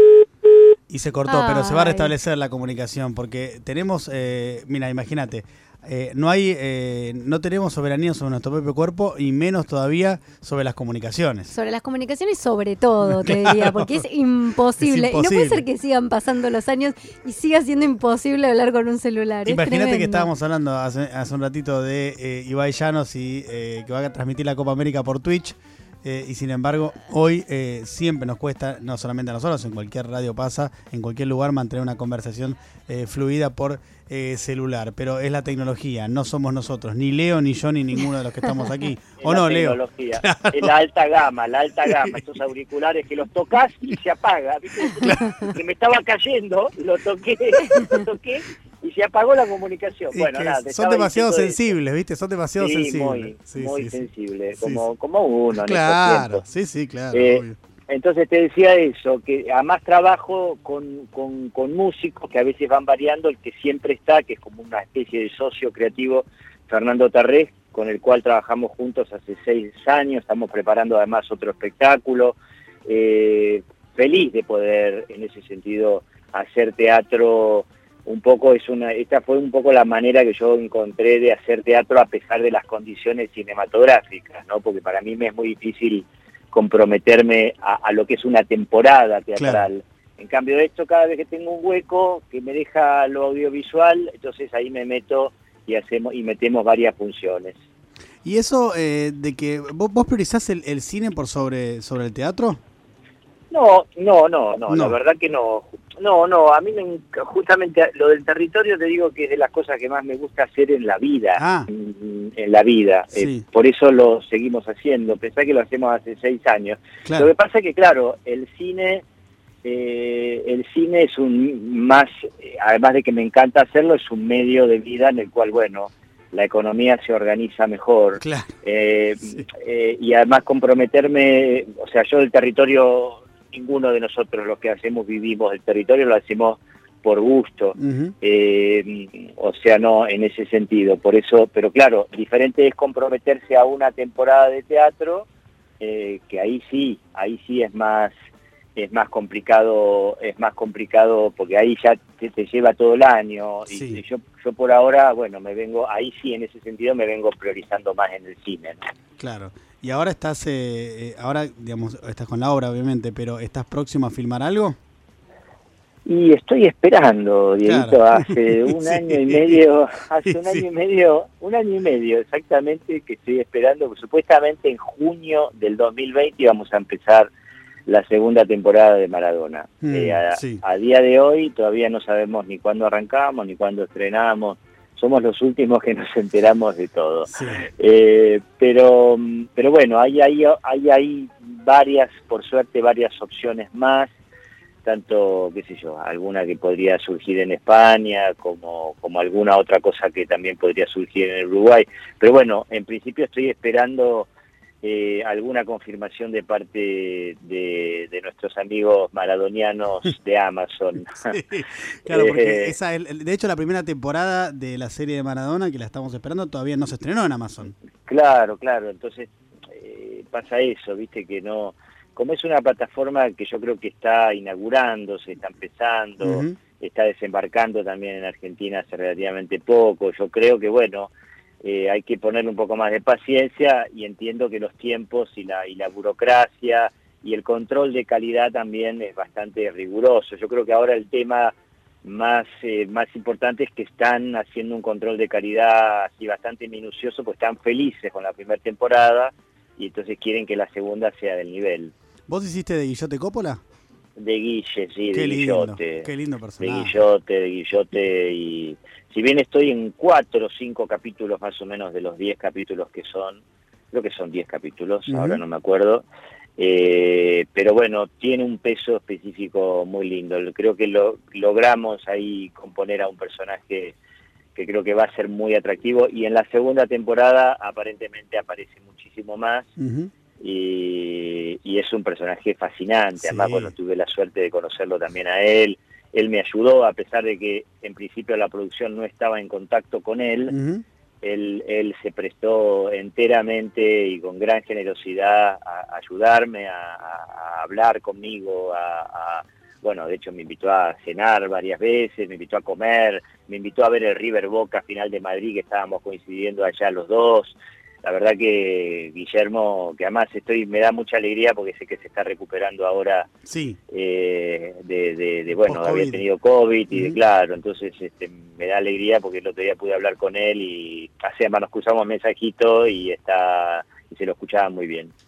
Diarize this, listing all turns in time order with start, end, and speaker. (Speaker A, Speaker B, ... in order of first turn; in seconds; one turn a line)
Speaker A: 0.9-11.5
Speaker B: 1.3-2.1
Speaker B: 11.5-20.3
Speaker A: 13.1-13.9
Speaker A: 14.8-15.6
Speaker A: 19.4-40.7
Speaker C: 39.2-51.7
Speaker A: 41.9-42.2
Speaker A: 44.9-45.5
Speaker A: 50.1-54.0
Speaker C: 52.6-56.4
Speaker A: 54.6-54.8
Speaker A: 55.6-57.6
Speaker C: 57.1-97.5
Speaker A: 89.4-89.7
Speaker A: 98.2-102.6
Speaker C: 103.5-119.0
Speaker A: 104.7-105.0
Speaker A: 111.4-111.7
Speaker A: 113.1-113.4
Speaker A: 117.0-117.3
Speaker C: 119.6-145.3
Speaker A: 128.2-128.5
Speaker A: 137.8-138.1
Speaker C: 145.8-148.1
Speaker C: 148.8-158.8
Speaker A: 153.7-154.0
Speaker A: 159.2-164.8
Speaker C: 166.1-177.3
Speaker A: 167.6-169.6
Speaker A: 170.2-170.6
Speaker C: 177.8-194.1
Speaker A: 179.8-180.6
Speaker A: 187.3-187.7
Speaker C: 194.8-204.3
Speaker C: 204.8-211.3
Speaker A: 211.3-217.7
Speaker C: 212.1-212.7
Speaker C: 218.1-251.9
Speaker A: 226.2-226.6
Speaker A: 252.3-253.6
Speaker C: 254.2-256.1
Speaker A: 255.1-257.0
Speaker C: 256.6-266.1
Speaker A: 265.1-265.4
Speaker C: 266.6-273.9
Speaker C: 274.5-279.7
Speaker A: 279.8-280.1
Speaker C: 280.4-290.5
Speaker A: 283.2-283.7
Speaker A: 290.5-290.8
Speaker C: 291.2-313.3
Speaker A: 313.4-313.8
Speaker C: 313.9-325.1
Speaker A: 315.6-316.2